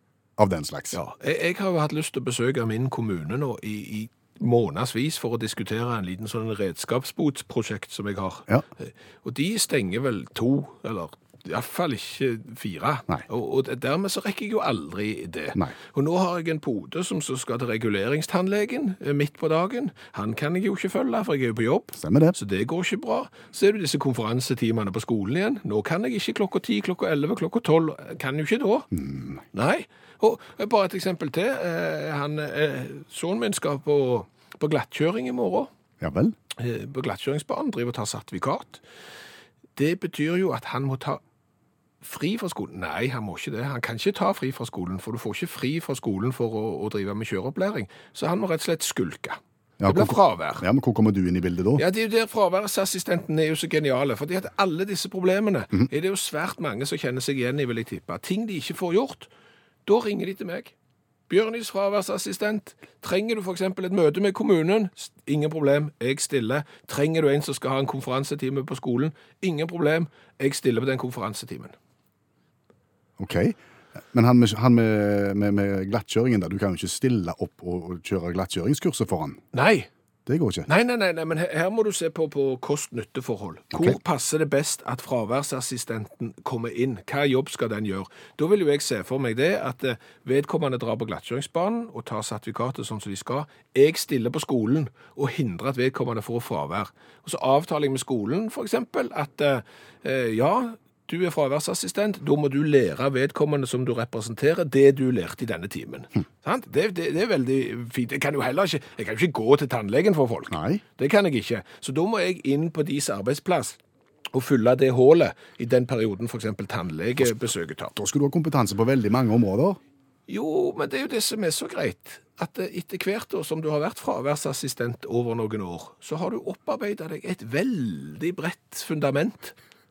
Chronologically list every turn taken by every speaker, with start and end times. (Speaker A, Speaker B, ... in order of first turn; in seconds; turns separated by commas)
Speaker A: 0.4-1.0, Speaker B: 0.9-28.9, Speaker A: 22.0-22.4, Speaker A: 28.9-29.4, Speaker B: 29.5-35.7, Speaker A: 36.0-36.4, Speaker B: 36.6-38.8, Speaker B: 39.8-41.2, Speaker B: 42.0-50.6, Speaker A: 49.8-51.8, Speaker B: 51.8-59.3, Speaker B: 59.9-60.7, Speaker B: 61.3-71.7, Speaker A: 73.2-73.6, Speaker A: 74.1-79.4, Speaker B: 79.5-79.9, Speaker A: 80.3-80.7, Speaker B: 80.7-113.8, Speaker A: 110.5-110.8, Speaker B: 114.3-117.9, Speaker A: 118.0-119.8, Speaker B: 120.3-129.6